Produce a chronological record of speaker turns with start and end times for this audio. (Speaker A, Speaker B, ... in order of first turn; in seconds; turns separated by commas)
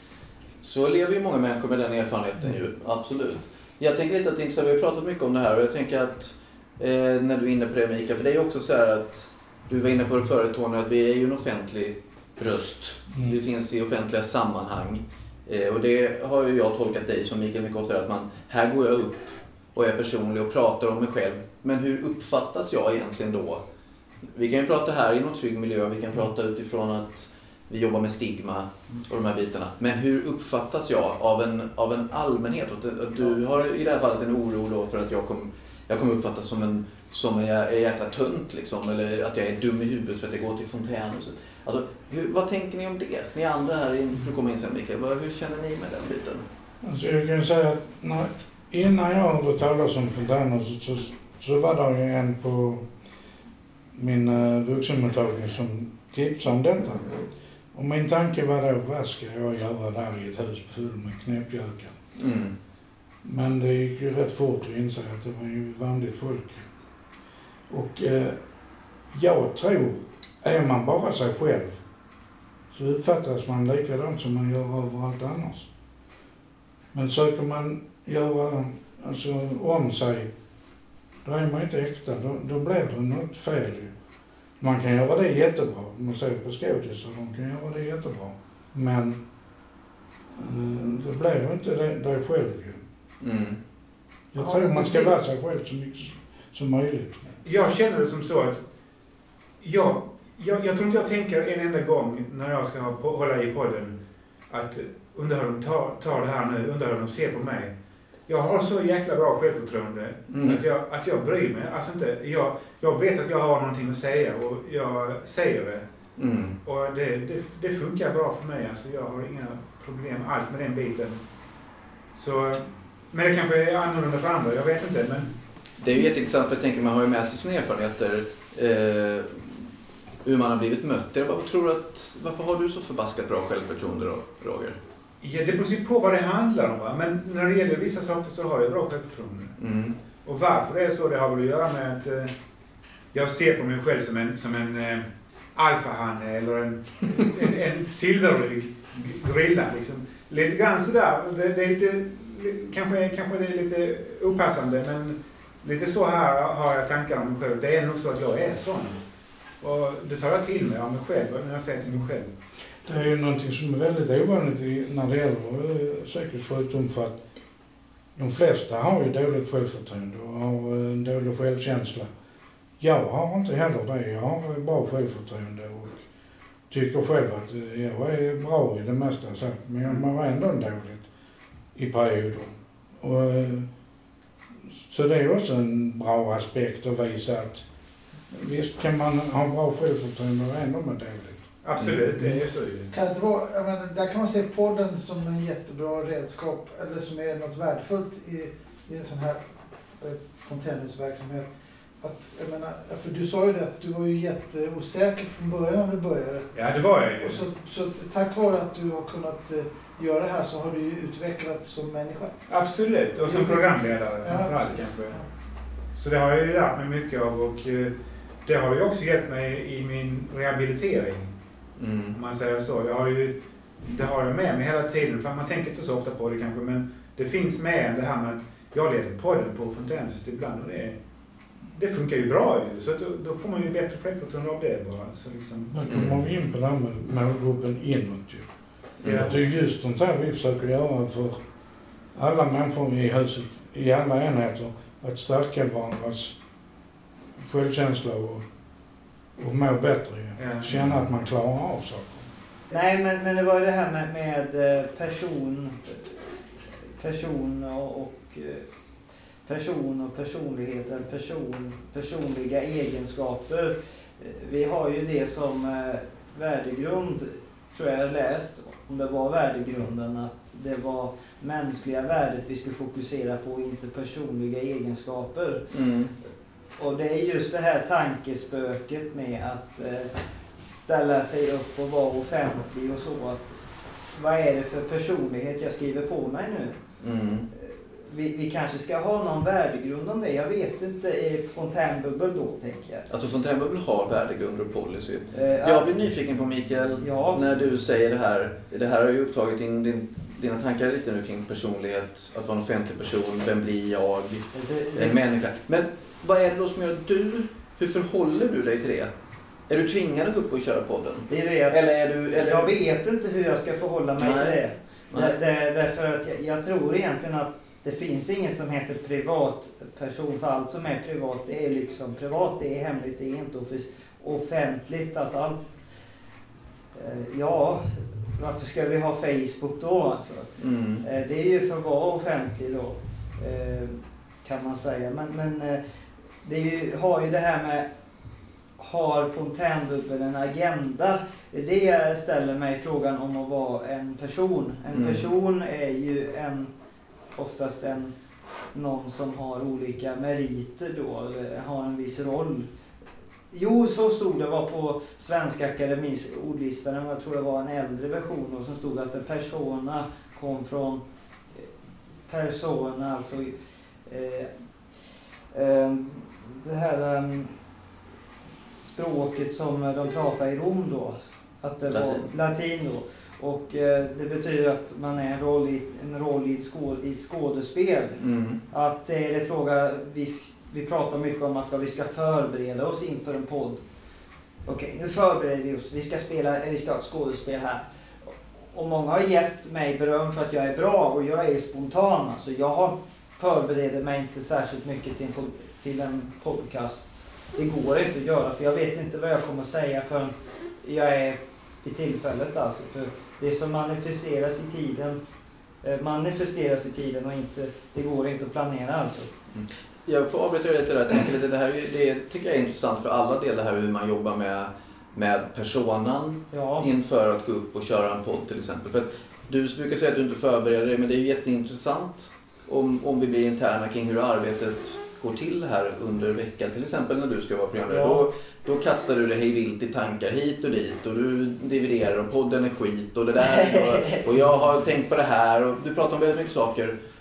Speaker A: 0.6-23.6, Speaker A: 24.3-46.4, Speaker B: 46.8-52.9, Speaker B: 53.9-57.2, Speaker B: 57.7-62.0, Speaker A: 62.1-62.5, Speaker B: 63.2-66.6, Speaker B: 67.7-68.4, Speaker B: 69.1-71.8, Speaker B: 72.7-75.7, Speaker B: 76.9-80.3, Speaker B: 81.2-83.9, Speaker B: 84.6-89.2, Speaker B: 90.3-92.8, Speaker A: 93.2-93.6, Speaker B: 94.3-97.2, Speaker C: 94.4-95.2, Speaker D: 97.4-98.6, Speaker D: 99.6-104.0, Speaker D: 104.5-107.7, Speaker D: 108.3-115.8, Speaker A: 110.3-110.6, Speaker A: 116.2-116.6, Speaker D: 116.6-121.2, Speaker D: 122.1-125.3, Speaker A: 125.8-129.7, Speaker A: 130.2-134.8, Speaker D: 135.2-139.6, Speaker A: 139.6-139.9, Speaker D: 140.2-142.3, Speaker D: 143.1-159.0, Speaker D: 159.6-162.3, Speaker B: 162.8-167.2, Speaker B: 168.1-172.1, Speaker B: 172.8-176.0, Speaker B: 176.7-181.0, Speaker B: 181.7-183.7, Speaker B: 184.7-187.6, Speaker B: 188.3-191.4, Speaker D: 191.6-192.9, Speaker C: 192.9-206.5, Speaker D: 206.5-207.4, Speaker C: 207.2-212.3, Speaker D: 212.5-215.2, Speaker C: 213.2-215.2, Speaker D: 215.9-217.9, Speaker D: 218.4-221.3, Speaker A: 221.8-222.2, Speaker D: 222.1-231.0, Speaker D: 231.7-236.1, Speaker B: 235.7-238.5, Speaker A: 235.8-236.2, Speaker A: 239.0-239.3, Speaker D: 239.0-239.4, Speaker B: 239.0-241.4, Speaker B: 242.1-246.3, Speaker B: 247.3-248.4, Speaker B: 249.4-252.2, Speaker D: 250.4-250.7, Speaker E: 252.7-256.2, Speaker E: 257.0-258.6, Speaker E: 259.4-275.7, Speaker A: 275.7-276.1, Speaker E: 276.8-280.1, Speaker E: 280.7-283.5, Speaker E: 284.1-286.8, Speaker A: 287.0-287.5, Speaker E: 287.5-293.1, Speaker A: 293.1-309.1, Speaker E: 295.3-295.9, Speaker E: 297.0-297.5, Speaker E: 304.5-305.2, Speaker A: 309.7-312.7, Speaker E: 311.3-325.8, Speaker A: 314.2-314.6, Speaker A: 315.1-315.4, Speaker E: 326.9-330.5, Speaker A: 330.6-331.0, Speaker E: 331.0-335.8, Speaker E: 336.4-337.9, Speaker E: 338.8-346.7, Speaker A: 344.9-345.2, Speaker E: 347.4-348.1, Speaker E: 348.7-352.7, Speaker E: 353.5-361.0, Speaker E: 362.3-363.5, Speaker E: 364.1-364.5, Speaker E: 365.5-367.5, Speaker E: 368.8-378.2, Speaker A: 371.9-372.3, Speaker A: 378.2-378.6, Speaker E: 378.7-383.8, Speaker E: 384.6-405.2, Speaker E: 405.8-409.3, Speaker A: 409.5-436.9, Speaker E: 416.5-416.9, Speaker E: 427.9-428.2, Speaker E: 433.4-434.2